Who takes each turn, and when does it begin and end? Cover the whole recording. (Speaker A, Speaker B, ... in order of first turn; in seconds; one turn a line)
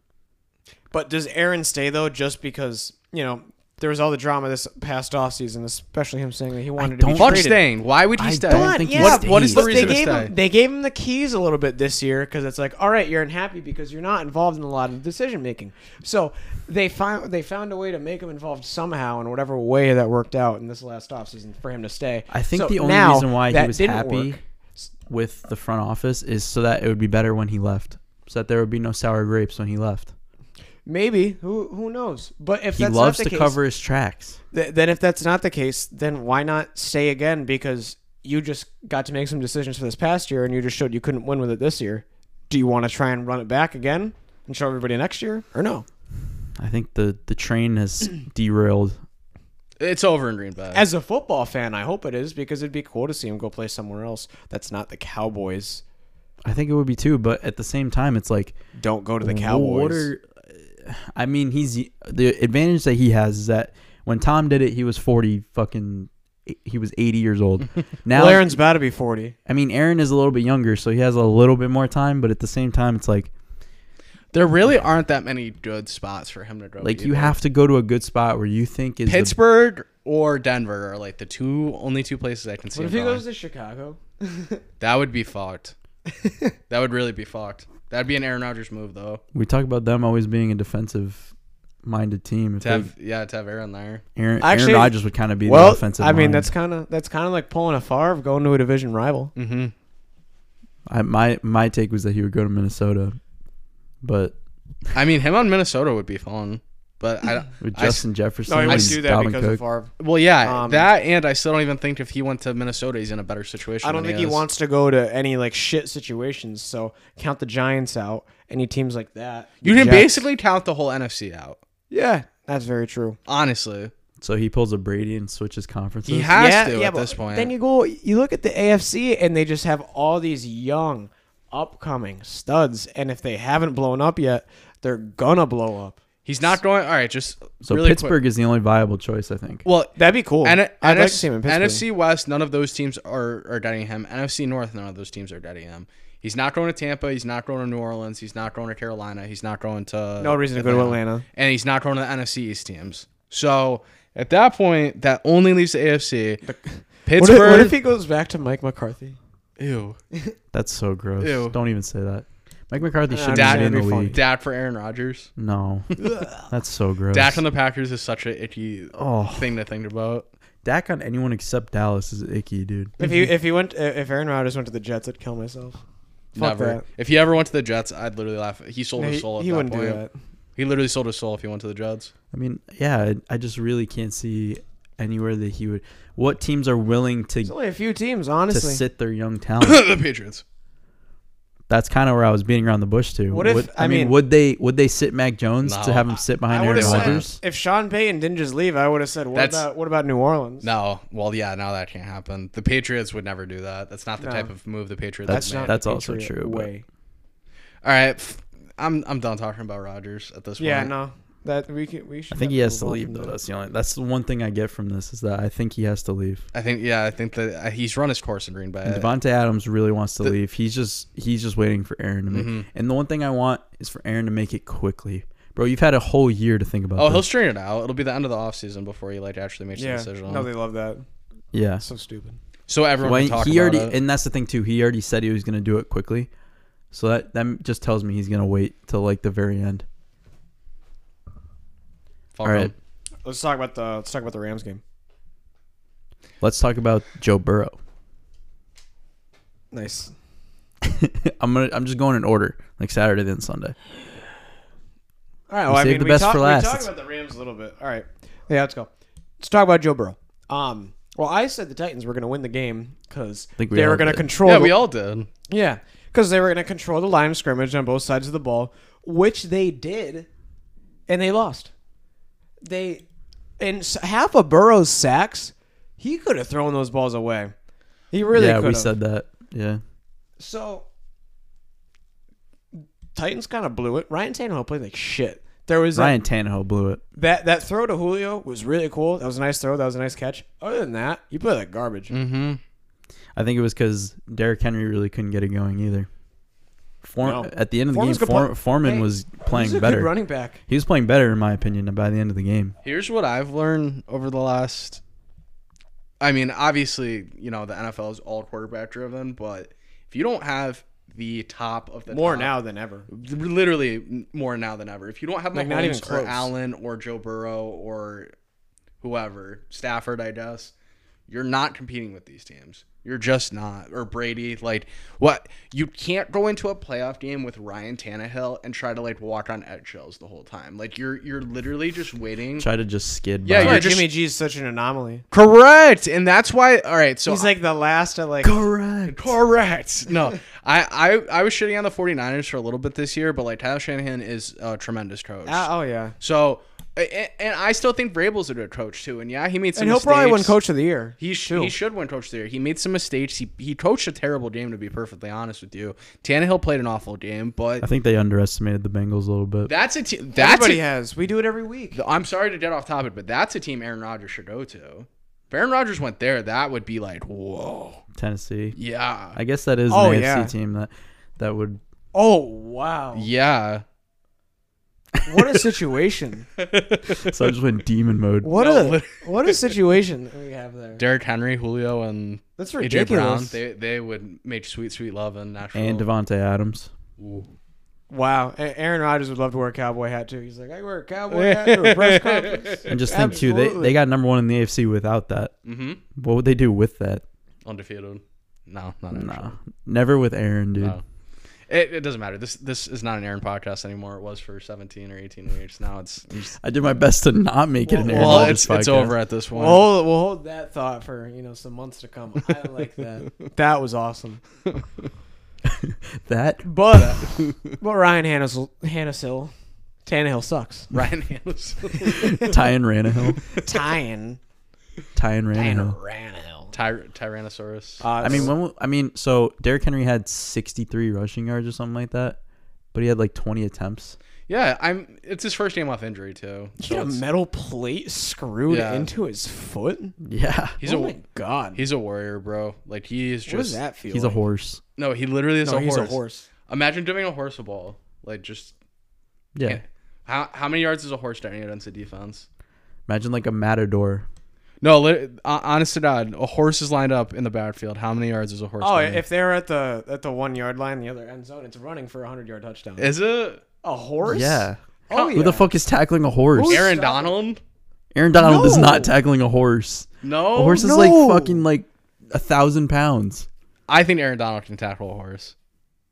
Speaker A: 0.9-7.6
Speaker B: 6.8-7.5
Speaker C: 7.2-10.3
Speaker B: 8.2-10.0
Speaker A: 8.5-24.9
Speaker B: 22.3-24.4
Speaker B: 25.1-30.1
Speaker A: 30.9-33.6
Speaker B: 32.7-34.4
Speaker A: 34.5-45.9
Speaker B: 46.6-49.0
Speaker C: 49.8-50.9
Speaker A: 50.7-55.8
Speaker B: 56.4-58.5
Speaker A: 58.8-60.1
Speaker B: 59.2-68.5
Speaker A: 68.1-69.3
Speaker B: 69.5-73.3
Speaker C: 74.3-77.4
Speaker B: 76.8-79.3
Speaker C: 79.0-83.2
Speaker A: 82.7-84.6
Speaker C: 84.8-85.7
Speaker A: 86.2-86.5
Speaker C: 86.7-89.2
Speaker B: 89.3-91.3
Speaker B: 91.8-92.9
Speaker C: 92.6-94.0
Speaker B: 94.2-96.5
Speaker A: 94.4-99.3
Speaker C: 99.4-99.7
Speaker B: 100.9-103.2
Speaker B: 104.0-104.3
Speaker C: 104.9-108.0
Speaker B: 107.6-109.6
Speaker A: 108.5-110.9
Speaker C: 108.6-109.0
Speaker C: 110.0-114.4
Speaker A: 113.8-120.2
Speaker C: 119.6-121.6
Speaker A: 121.9-123.2
Speaker C: 123.3-123.9
Speaker B: 124.2-126.3
Speaker C: 126.0-127.5
Speaker A: 126.3-136.0
Speaker C: 136.2-138.2
Speaker B: 137.6-139.6
Speaker C: 139.6-156.4
Speaker A: 140.0-141.8
Speaker A: 150.2-151.2
Speaker A: 156.4-159.2
Speaker C: 157.1-157.8
Speaker C: 159.6-160.0
Speaker B: 160.5-164.2
Speaker C: 161.2-161.6
Speaker A: 163.1-164.2
Speaker C: 163.3-165.3
Speaker B: 165.4-167.4
Speaker C: 167.1-170.3
Speaker B: 168.9-169.5
Speaker B: 170.6-173.0
Speaker A: 173.0-175.8
Speaker C: 176.3-180.0
Speaker A: 176.4-176.8
Speaker A: 179.0-180.1
Speaker C: 180.6-182.1
Speaker B: 182.3-187.5
Speaker A: 187.4-188.8
Speaker B: 188.5-189.8
Speaker C: 189.6-190.4
Speaker B: 191.7-197.4
Speaker A: 193.3-194.2
Speaker C: 195.6-197.2
Speaker A: 196.5-200.7
Speaker C: 199.3-199.7
Speaker C: 200.6-205.8
Speaker A: 204.2-204.5
Speaker B: 205.3-206.7
Speaker A: 205.3-206.8
Speaker C: 207.8-210.9
Speaker A: 210.6-213.4
Speaker B: 212.3-216.4
Speaker C: 216.5-219.1
Speaker B: 218.8-227.2
Speaker C: 222.3-222.7
Speaker C: 227.0-230.5
Speaker A: 229.8-231.0
Speaker B: 231.5-231.8
Speaker A: 231.8-232.4
Speaker C: 232.7-233.9
Speaker B: 233.0-236.3
Speaker B: 236.9-239.8
Speaker C: 242.3-242.7
Speaker B: 242.4-242.7
Speaker A: 243.2-244.8
Speaker B: 246.4-247.8
Speaker A: 249.7-250.1
Speaker B: 250.8-253.8
Speaker A: 255.5-264.8
Speaker B: 255.7-256.9
Speaker B: 263.6-264.3
Speaker C: 264.4-265.3
Speaker A: 265.5-270.3
Speaker A: 271.1-271.7
Speaker A: 272.6-273.0
Speaker A: 273.6-277.5
Speaker A: 278.1-278.9
Speaker B: 278.3-279.8
Speaker A: 280.4-280.9
Speaker A: 282.8-286.2
Speaker B: 285.9-287.0
Speaker A: 287.1-292.1
Speaker C: 292.1-292.6
Speaker B: 293.4-296.1
Speaker B: 297.0-300.1
Speaker A: 297.2-300.6
Speaker B: 300.7-302.7
Speaker C: 302.8-305.0
Speaker C: 306.2-312.5
Speaker A: 312.1-313.1
Speaker C: 313.1-318.3
Speaker A: 315.5-316.5
Speaker C: 319.0-320.7
Speaker C: 321.3-332.7
Speaker B: 332.6-333.9
Speaker C: 333.4-334.1
Speaker A: 333.6-335.2
Speaker C: 335.3-337.5
Speaker A: 337.2-338.6
Speaker B: 338.4-339.4
Speaker C: 339.1-345.7
Speaker A: 345.4-346.1
Speaker C: 346.2-350.6
Speaker A: 349.8-351.7
Speaker C: 351.2-357.9
Speaker B: 357.8-359.7
Speaker C: 359.6-360.8
Speaker A: 360.4-362.0
Speaker C: 361.9-368.0
Speaker B: 368.1-368.8
Speaker C: 368.8-369.4
Speaker B: 369.3-371.8
Speaker A: 369.9-370.5
Speaker A: 372.1-373.3
Speaker C: 373.1-373.8
Speaker A: 375.2-376.5
Speaker C: 376.6-377.4
Speaker B: 377.2-378.5
Speaker A: 378.4-381.0
Speaker C: 378.5-379.8
Speaker C: 381.0-386.1
Speaker A: 382.6-383.6
Speaker B: 385.8-386.9
Speaker C: 387.2-387.5
Speaker A: 388.1-393.9
Speaker C: 391.3-392.9
Speaker B: 392.9-395.5
Speaker C: 395.6-396.0
Speaker B: 396.1-397.2
Speaker C: 397.6-399.6
Speaker B: 399.1-401.0
Speaker C: 401.7-406.5
Speaker B: 406.6-409.1
Speaker A: 407.9-408.6
Speaker C: 408.1-409.9
Speaker A: 409.5-414.4
Speaker B: 415.6-416.6
Speaker A: 416.6-419.5
Speaker C: 416.9-417.7
Speaker A: 420.1-420.9
Speaker C: 420.9-422.5
Speaker B: 422.2-423.4
Speaker A: 423.5-424.4
Speaker B: 425.1-425.9
Speaker A: 425.5-426.7
Speaker C: 426.7-428.4
Speaker A: 428.0-428.5
Speaker B: 428.2-432.4
Speaker B: 432.9-434.2
Speaker C: 434.5-437.2
Speaker A: 436.8-440.1
Speaker C: 438.7-439.1
Speaker B: 440.2-440.8
Speaker C: 440.8-441.2
Speaker A: 440.8-441.8
Speaker C: 441.8-443.8
Speaker A: 443.4-444.4
Speaker B: 444.1-444.8
Speaker C: 445.0-448.7
Speaker A: 445.6-446.5
Speaker B: 449.5-449.8
Speaker C: 449.6-452.4
Speaker B: 453.1-454.2
Speaker C: 454.8-459.2
Speaker A: 458.8-463.1
Speaker C: 463.0-463.6
Speaker A: 463.8-465.7
Speaker B: 464.2-464.8
Speaker B: 465.3-466.9
Speaker A: 466.5-467.4
Speaker C: 466.7-467.6
Speaker B: 468.1-473.5
Speaker A: 468.4-469.1
Speaker C: 470.2-470.8
Speaker A: 470.7-471.6
Speaker C: 473.9-475.5